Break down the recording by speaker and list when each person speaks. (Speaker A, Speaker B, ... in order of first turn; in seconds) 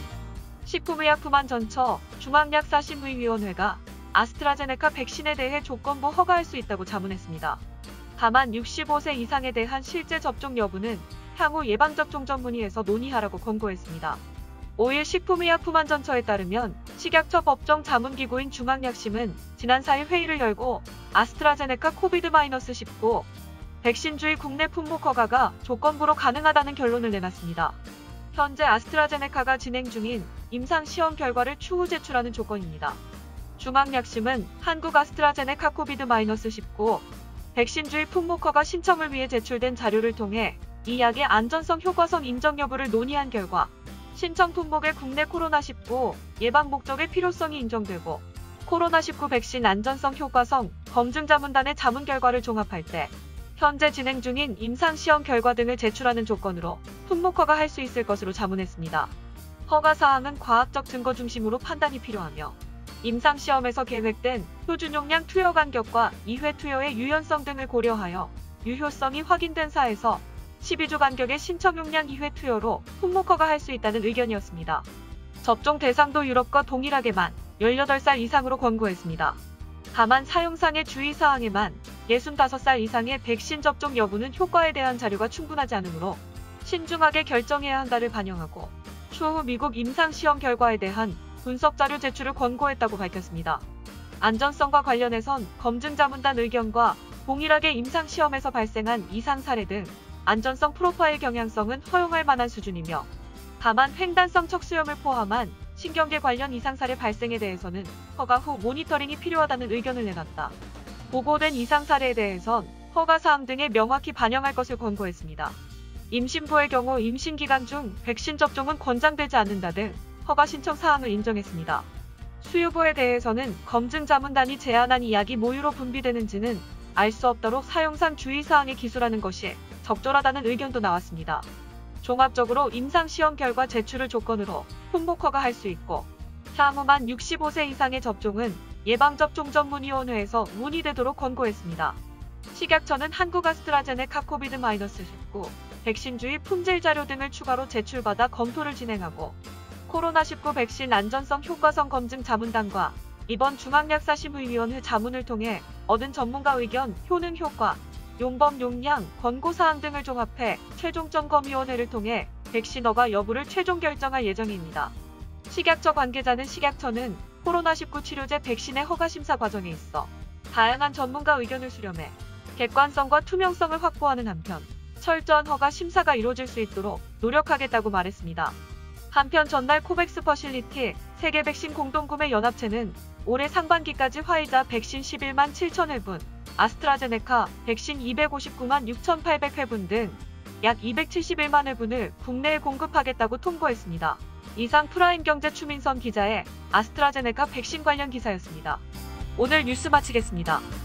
Speaker A: 0.7-7.6, 8.2-14.2, 14.8-23.3, 23.8-27.8, 28.3-33.0, 33.6-59.1, 59.7-74.9, 75.4-79.4, 79.9-93.7, 94.2-110.6, 111.1-115.6, 116.1-121.9, 122.4-131.5, 132.0-142.0, 142.5-164.9, 165.5-178.6, 179.1-198.8, 199.4-200.7